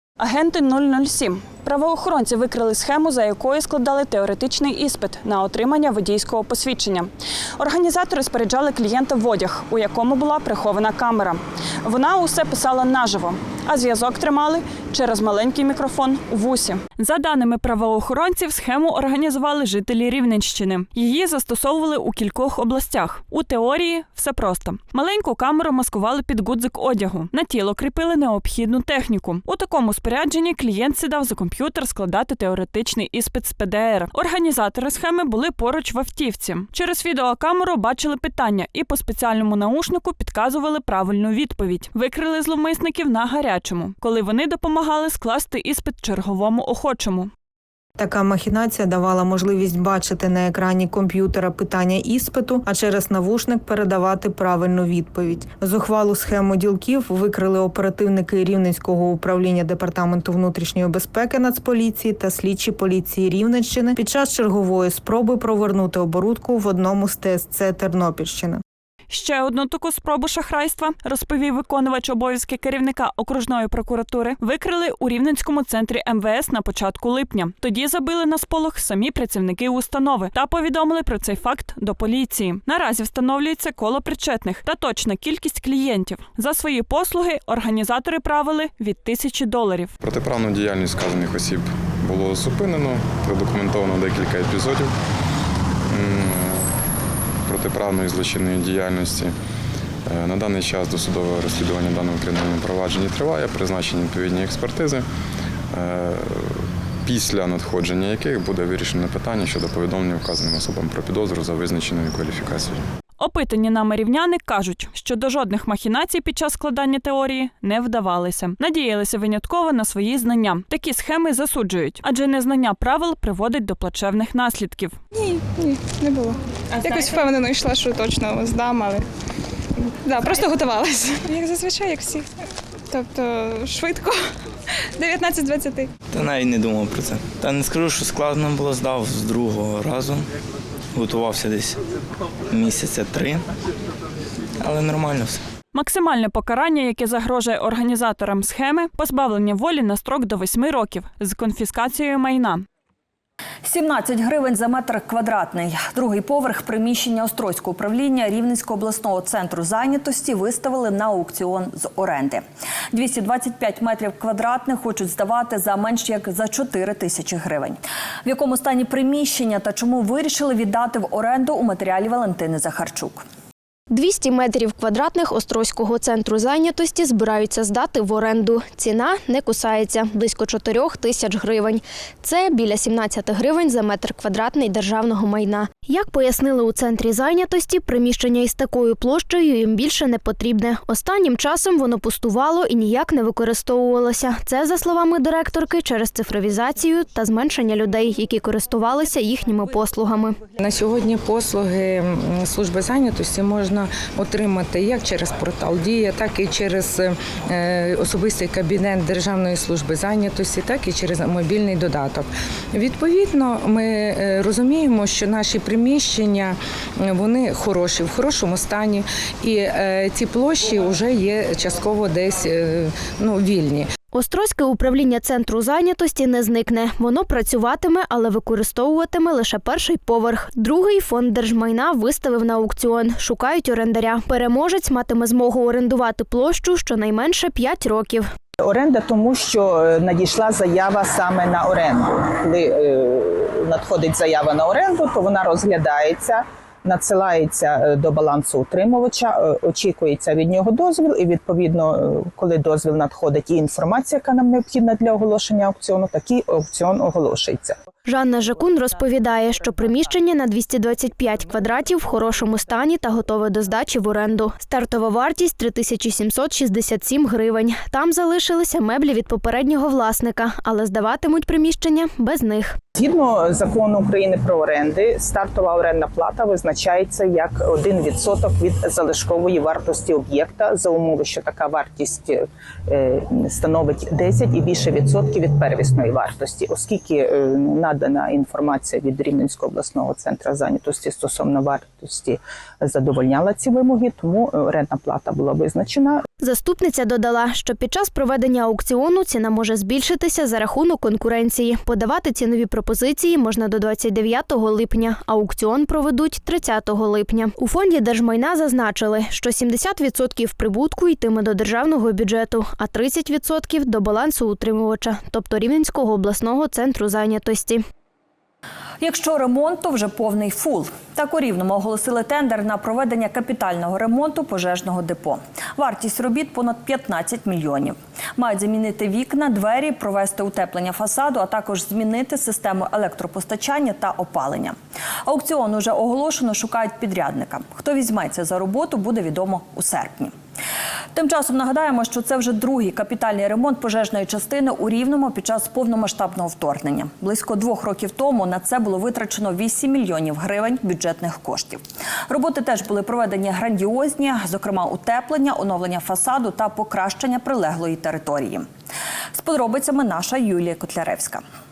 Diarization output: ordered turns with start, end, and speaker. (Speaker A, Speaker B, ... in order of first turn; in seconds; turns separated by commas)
Speaker A: 0.2-47.3, Speaker B: 48.0-68.6, Speaker A: 69.1-89.9, Speaker C: 90.0-94.9, Speaker C: 95.9-96.7, Speaker C: 97.5-99.3, Speaker C: 100.1-105.1, Speaker C: 105.7-112.8, Speaker A: 113.2-125.0, Speaker D: 125.1-129.1, Speaker D: 129.9-132.3, Speaker D: 132.9-134.3, Speaker D: 134.9-135.9, Speaker E: 136.1-140.3, Speaker E: 140.9-141.8, Speaker E: 142.5-143.5, Speaker E: 144.6-145.4, Speaker A: 145.7-152.6, Speaker F: 153.6-173.2, Speaker G: 173.9-200.4, Speaker H: 200.6-223.9, Speaker G: 224.1-238.3, Speaker I: 238.6-257.8, Speaker G: 258.1-272.8, Speaker I: 273.0-296.2, Speaker G: 296.4-317.8, Speaker F: 319.0-334.8, Speaker F: 335.3-340.3, Speaker F: 341.1-358.7, Speaker F: 359.4-361.4